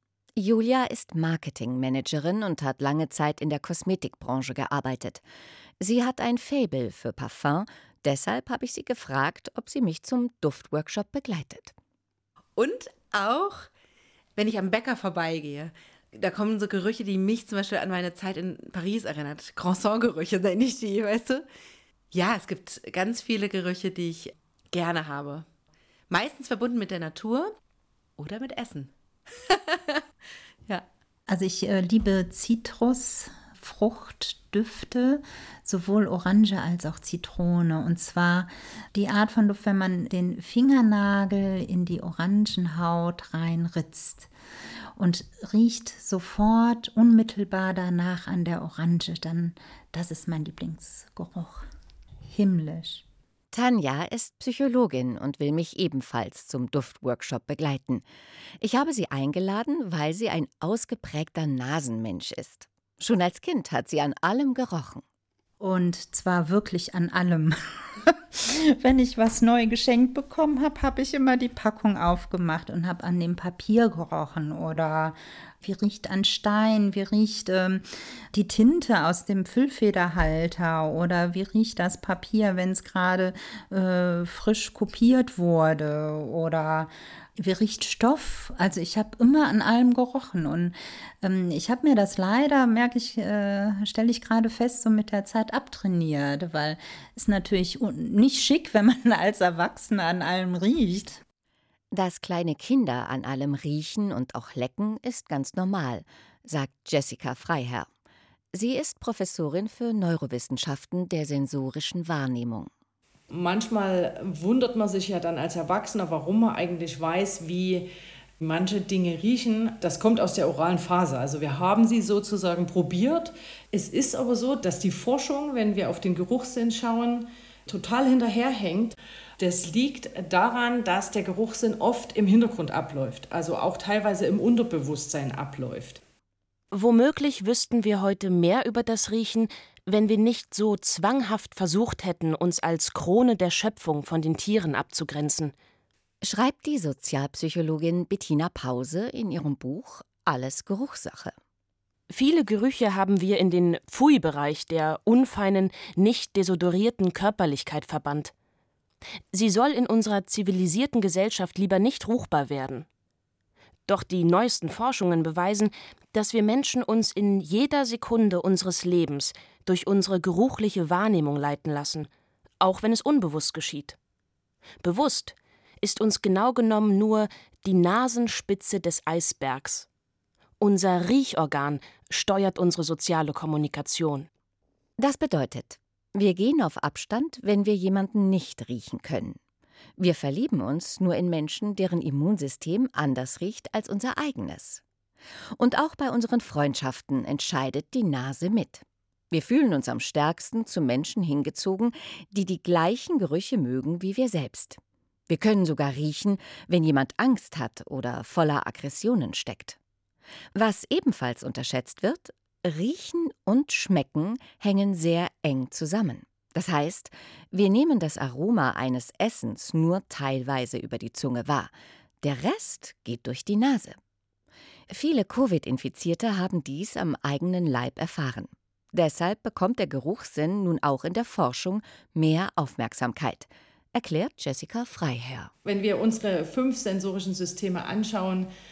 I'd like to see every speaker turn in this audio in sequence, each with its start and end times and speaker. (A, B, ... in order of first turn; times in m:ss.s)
0:00.4-0:05.2 A
0:05.8-0:11.7 A
0:12.6-0:13.7 B
0:14.4-0:21.4 B
0:22.1-0:25.5 B
0:26.1-0:27.5 B
0:28.2-0:28.9 B
0:29.4-0:30.0 B
0:31.3-0:44.3 C
0:45.0-0:51.6 C
0:52.3-0:53.0 C
0:53.5-0:58.0 A
0:58.6-1:05.0 A
1:05.6-1:41.2 C
1:41.9-1:47.9 A
1:48.5-1:52.7 A
1:53.3-1:57.9 D
1:58.4-2:16.0 D
2:16.7-2:25.5 E
2:26.2-2:31.3 A
2:32.1-2:38.3 E
2:39.3-2:42.8 E
2:43.9-2:52.1 E
2:52.6-2:54.0 E
2:54.8-2:59.9 E
3:00.6-3:04.3 E
3:05.0-3:09.4 A
3:10.0-3:14.8 A
3:15.6-3:29.8 A
3:30.5-3:41.7 A
3:42.2-3:44.0 A
3:44.9-3:55.5 A
3:55.6-3:58.5 D